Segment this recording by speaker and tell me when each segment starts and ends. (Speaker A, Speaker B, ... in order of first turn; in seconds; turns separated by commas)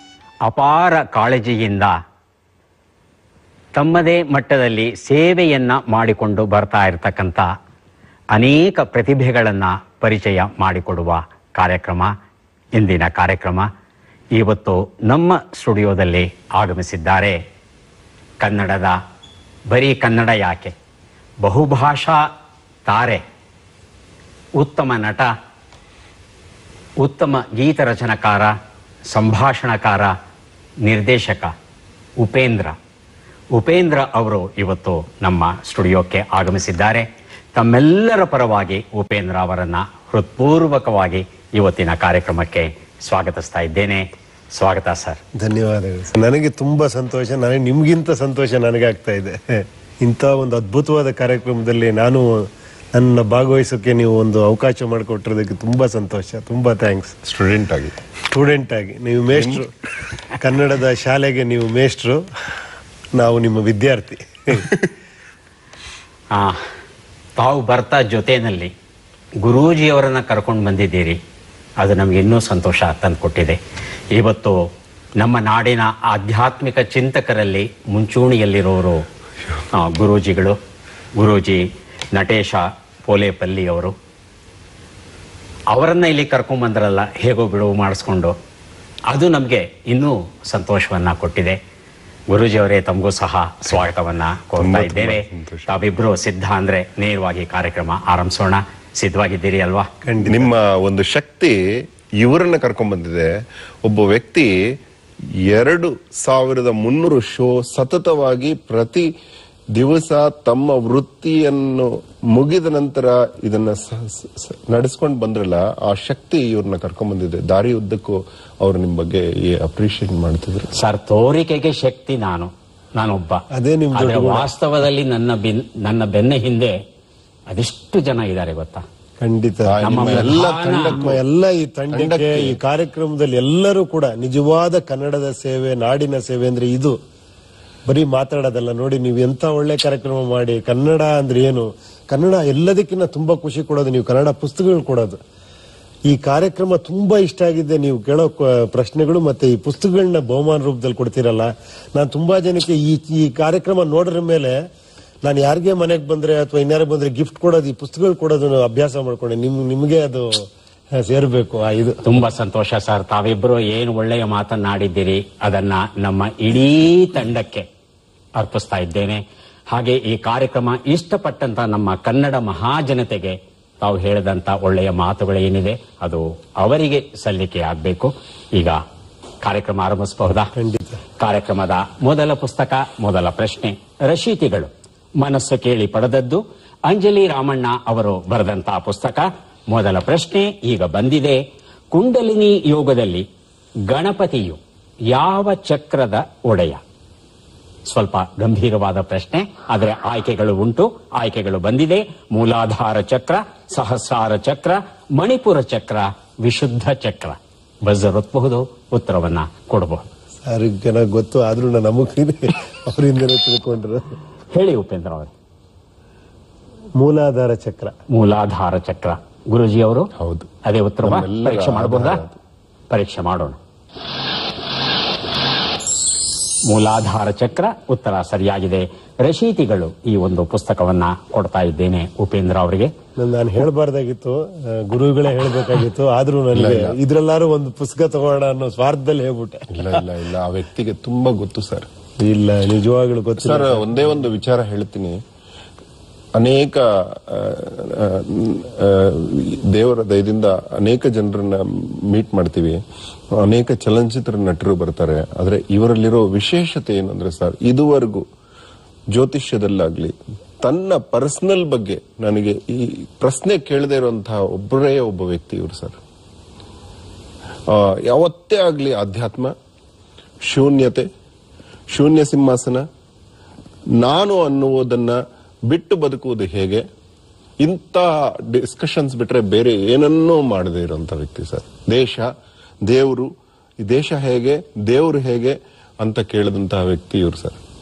Speaker A: 0.4-1.9, Speaker A: 3.7-7.5, Speaker A: 8.3-12.1, Speaker A: 12.8-13.7, Speaker A: 14.3-17.4, Speaker A: 18.4-19.0, Speaker A: 19.7-20.7, Speaker A: 21.4-22.3, Speaker A: 22.9-23.2, Speaker A: 24.6-25.3, Speaker A: 27.0-28.5, Speaker A: 29.1-30.1, Speaker A: 30.8-31.5, Speaker A: 32.2-32.7, Speaker A: 33.5-45.2, Speaker B: 45.3-57.1, Speaker C: 57.2-58.0, Speaker B: 58.3-59.7, Speaker C: 59.4-59.6, Speaker B: 60.4-62.2, Speaker B: 63.2-64.7, Speaker A: 66.3-66.6, Speaker A: 67.4-68.7, Speaker A: 69.4-71.2, Speaker A: 71.8-73.6, Speaker A: 74.1-74.7, Speaker A: 75.2-79.0, Speaker A: 79.7-80.6, Speaker A: 81.2-83.9, Speaker A: 85.7-88.3, Speaker A: 89.1-91.6, Speaker A: 92.3-99.9, Speaker C: 94.6-95.8, Speaker B: 100.0-100.5, Speaker C: 100.2-104.8, Speaker C: 105.4-109.1, Speaker C: 109.7-120.7, Speaker A: 120.7-123.4, Speaker B: 123.5-124.5, Speaker A: 123.9-126.8, Speaker A: 127.5-128.8, Speaker B: 129.2-137.0, Speaker C: 129.7-131.2, Speaker A: 129.8-131.0, Speaker C: 131.9-132.6, Speaker B: 137.9-145.2, Speaker B: 146.1-154.6, Speaker B: 155.2-162.0, Speaker A: 162.0-167.7, Speaker A: 168.4-178.8, Speaker A: 179.4-180.5, Speaker B: 180.6-181.0, Speaker A: 181.2-191.4, Speaker A: 191.9-193.3, Speaker A: 193.9-196.8, Speaker A: 197.9-210.1, Speaker B: 210.4-214.2, Speaker A: 214.5-215.3, Speaker B: 217.0-217.9, Speaker A: 218.1-220.1, Speaker C: 220.2-220.5, Speaker A: 220.6-222.2, Speaker C: 221.0-222.4, Speaker A: 222.9-223.6, Speaker A: 226.7-232.9, Speaker B: 233.2-240.0, Speaker C: 236.5-237.0, Speaker C: 239.7-241.9, Speaker B: 242.2-243.9, Speaker C: 243.4-245.2, Speaker C: 246.4-252.8, Speaker C: 253.3-258.2, Speaker C: 259.1-266.0, Speaker C: 267.7-269.5, Speaker C: 270.5-271.1, Speaker C: 271.9-272.8, Speaker C: 274.0-276.8, Speaker C: 277.6-282.3, Speaker C: 282.8-287.6